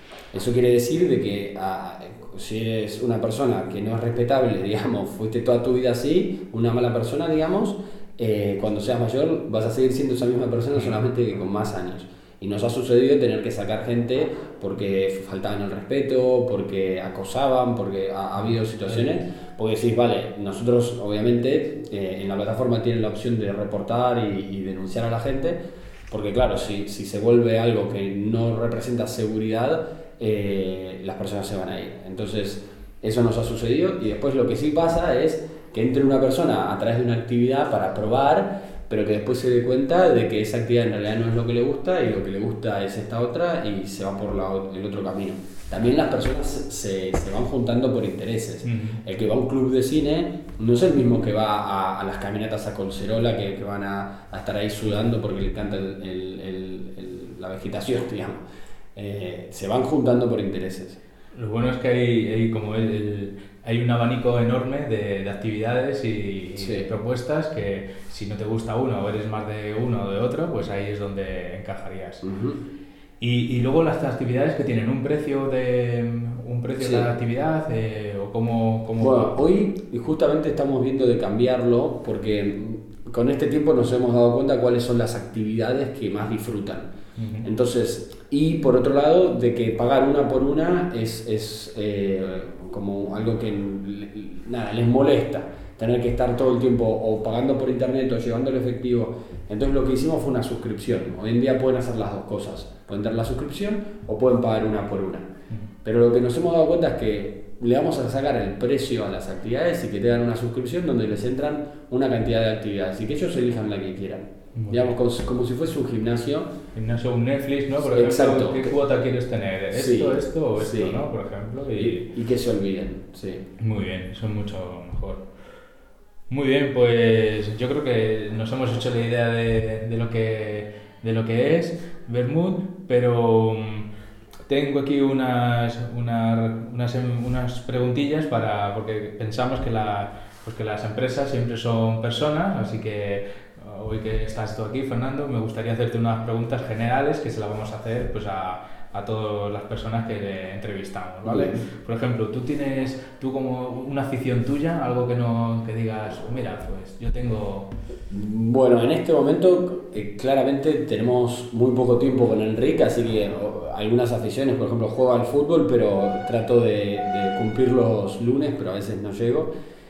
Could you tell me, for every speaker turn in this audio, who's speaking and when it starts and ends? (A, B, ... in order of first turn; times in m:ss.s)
0:00.3-0:25.6 A
0:26.1-0:58.4 A
0:48.6-0:49.0 B
0:59.0-1:01.0 A
1:01.3-1:12.2 B
1:06.6-1:06.9 A
1:12.2-1:12.6 A
1:13.2-1:19.3 B
1:16.8-1:17.1 A
1:19.0-1:26.9 A
1:27.2-1:27.5 B
1:27.4-1:45.3 A
1:45.8-1:56.5 A
1:54.6-1:54.8 B
1:56.8-2:02.1 B
1:57.8-1:58.8 A
1:59.7-2:01.0 A
2:01.8-2:03.4 A
2:03.6-2:05.2 B
2:06.3-2:13.9 B
2:14.5-2:37.7 B
2:31.2-2:31.6 A
2:38.1-2:49.5 A